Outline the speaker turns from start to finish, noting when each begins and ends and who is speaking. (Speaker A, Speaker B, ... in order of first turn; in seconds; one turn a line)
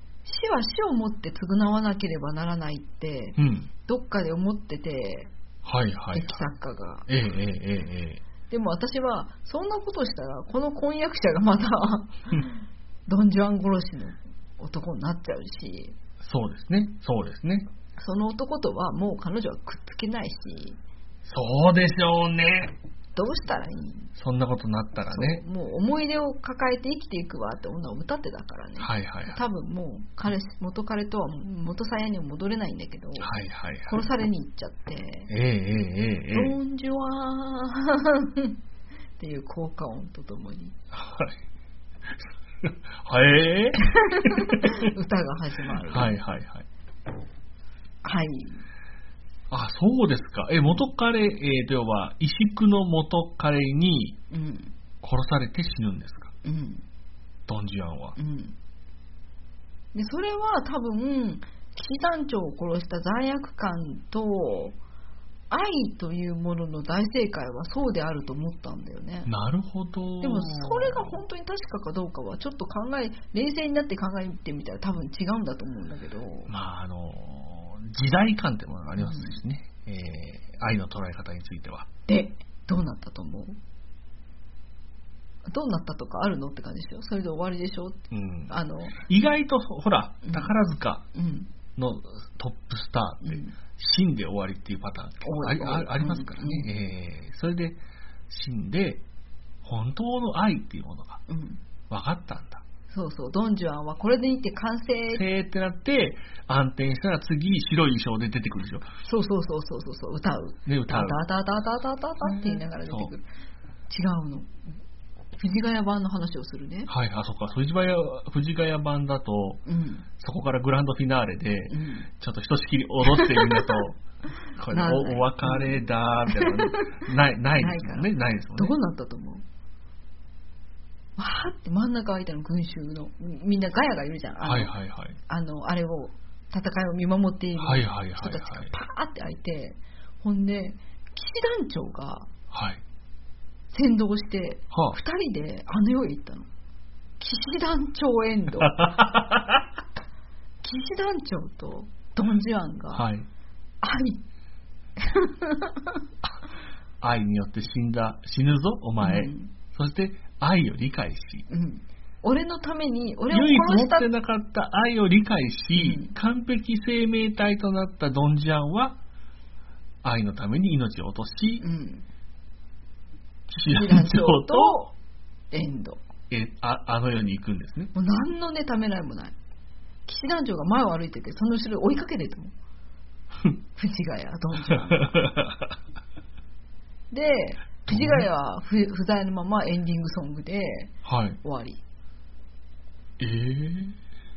Speaker A: 0.2-5.3
Speaker B: 3.4-3.7
Speaker B: 5.7-6.4
Speaker A: 6.1-7.1
Speaker B: 7.1-8.2
Speaker A: 8.5-16.0
Speaker B: 16.2-17.7
Speaker A: 18.0-20.8
Speaker B: 21.2-22.8
Speaker A: 23.2-24.1
Speaker B: 24.1-25.4
Speaker A: 25.1-33.3
Speaker B: 28.8-29.4
Speaker B: 33.2-34.1
Speaker A: 33.9-35.3
Speaker B: 35.3-36.6
Speaker A: 36.3-38.6
Speaker A: 39.2-40.8
Speaker B: 40.9-41.4
Speaker B: 42.1-44.9
Speaker A: 43.8-46.2
Speaker B: 45.9-46.7
Speaker A: 48.0-48.6
Speaker B: 49.5-54.2
Speaker A: 54.3-54.7
Speaker B: 55.0-56.3
Speaker A: 56.4-56.8
Speaker B: 57.5-58.2
Speaker A: 58.2-58.5
Speaker A: 59.9-64.8
Speaker A: 65.5-69.3
Speaker B: 69.3-71.2
Speaker A: 70.2-76.5
Speaker B: 76.5-81.9
Speaker A: 79.0-79.4
Speaker A: 82.1-83.6
Speaker A: 85.5-89.0
Speaker B: 88.1-91.0
Speaker A: 90.2-90.5
Speaker A: 91.1-91.5
Speaker B: 91.8-99.0
Speaker A: 93.2-93.5
Speaker A: 95.2-96.7
Speaker B: 99.6-101.2
Speaker A: 101.3-101.6
Speaker B: 101.9-102.6
Speaker A: 102.9-105.2
Speaker B: 105.1-108.9
Speaker A: 109.0-113.2
Speaker B: 110.7-111.2
Speaker B: 112.2-113.1
Speaker A: 113.9-114.5
Speaker A: 115.4-116.9
Speaker B: 116.9-119.6
Speaker A: 119.7-120.1
Speaker B: 120.2-124.0
Speaker A: 121.7-122.1
Speaker A: 123.1-123.8
Speaker B: 124.5-128.8
Speaker A: 124.7-129.4
Speaker A: 131.2-134.7
Speaker B: 134.4-135.2
Speaker A: 135.3-142.3
Speaker B: 137.6-138.7
Speaker B: 142.5-142.8
Speaker A: 143.7-146.5
Speaker B: 144.7-145.0
Speaker A: 147.2-148.9
Speaker B: 148.6-149.6
Speaker A: 150.6-153.1
Speaker B: 152.9-153.3
Speaker A: 153.8-154.2
Speaker A: 155.0-156.0
Speaker B: 157.0-161.5
Speaker A: 159.0-159.5
Speaker A: 161.5-164.1
Speaker B: 163.3-169.0
Speaker A: 165.8-166.1
Speaker B: 170.0-171.7
Speaker A: 171.6-172.1
Speaker B: 173.5-174.8
Speaker A: 173.7-174.9
Speaker A: 175.5-176.0
Speaker B: 176.3-177.9
Speaker A: 177.9-179.3
Speaker A: 180.1-182.5
Speaker A: 183.8-185.2
Speaker B: 184.7-185.7
Speaker A: 187.1-191.8
Speaker B: 187.9-188.3
Speaker B: 191.1-191.4
Speaker B: 193.2-194.0